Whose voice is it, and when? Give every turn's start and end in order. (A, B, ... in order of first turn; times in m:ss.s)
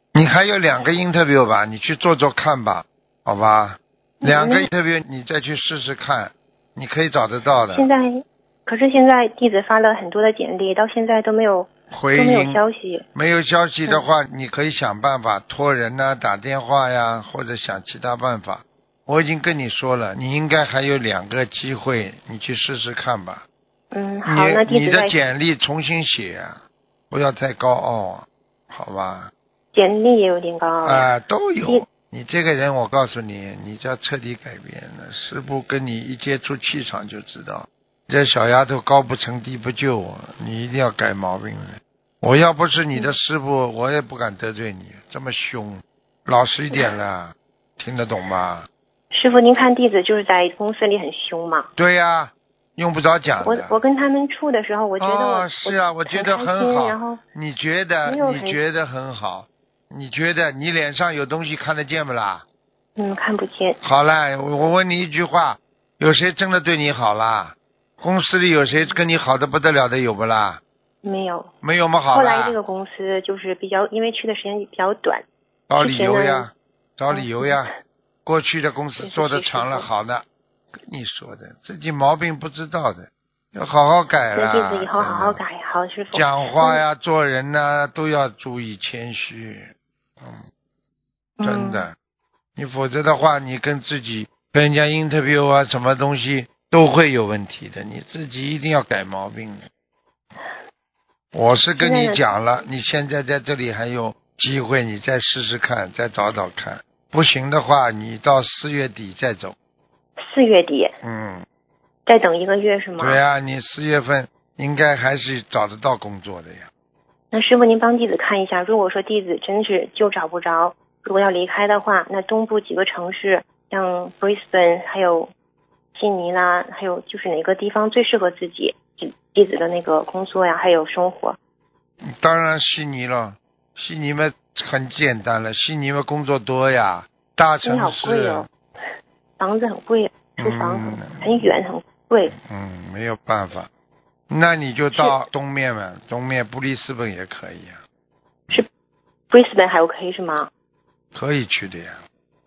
0:00.1-0:07.9 A
0:04.2-0:04.7 B
0:07.7-0:13.0 B
0:11.9-0:12.6 A
0:13.1-0:23.4 A
0:23.9-0:25.2 B
0:24.3-0:29.3 A
0:29.7-0:31.1 B
0:30.8-0:48.7 A
0:49.1-0:51.7 B
0:51.8-0:53.8 A
0:53.4-0:57.2 B
0:55.0-1:02.4 A
0:58.1-0:58.6 B
1:03.0-1:03.8 B
1:03.8-1:10.6 A
1:11.0-1:11.5 B
1:11.6-1:12.6 A
1:12.1-1:15.2 B
1:15.7-1:17.7 A
1:15.8-1:16.5 B
1:17.1-1:17.6 B
1:18.2-1:20.2 A
1:19.0-1:19.9 B
1:20.9-1:25.4 A
1:24.4-1:26.8 B
1:26.1-1:30.5 A
1:31.4-1:31.9 B
1:31.4-1:32.0 A
1:32.6-1:39.7 A
1:41.3-1:49.6 A
1:41.8-1:42.2 B
1:50.2-1:51.0 B
1:51.0-1:51.5 A
1:52.1-1:53.2 B
1:53.0-1:56.7 A
1:57.3-2:05.3 B
2:06.0-2:11.4 B
2:12.0-2:18.5 A
2:17.6-2:18.5 B
2:19.4-2:22.3 B
2:20.4-2:21.6 A
2:22.4-2:23.7 A
2:24.3-2:27.8 A
2:29.3-2:30.5 B
2:31.1-2:32.0 A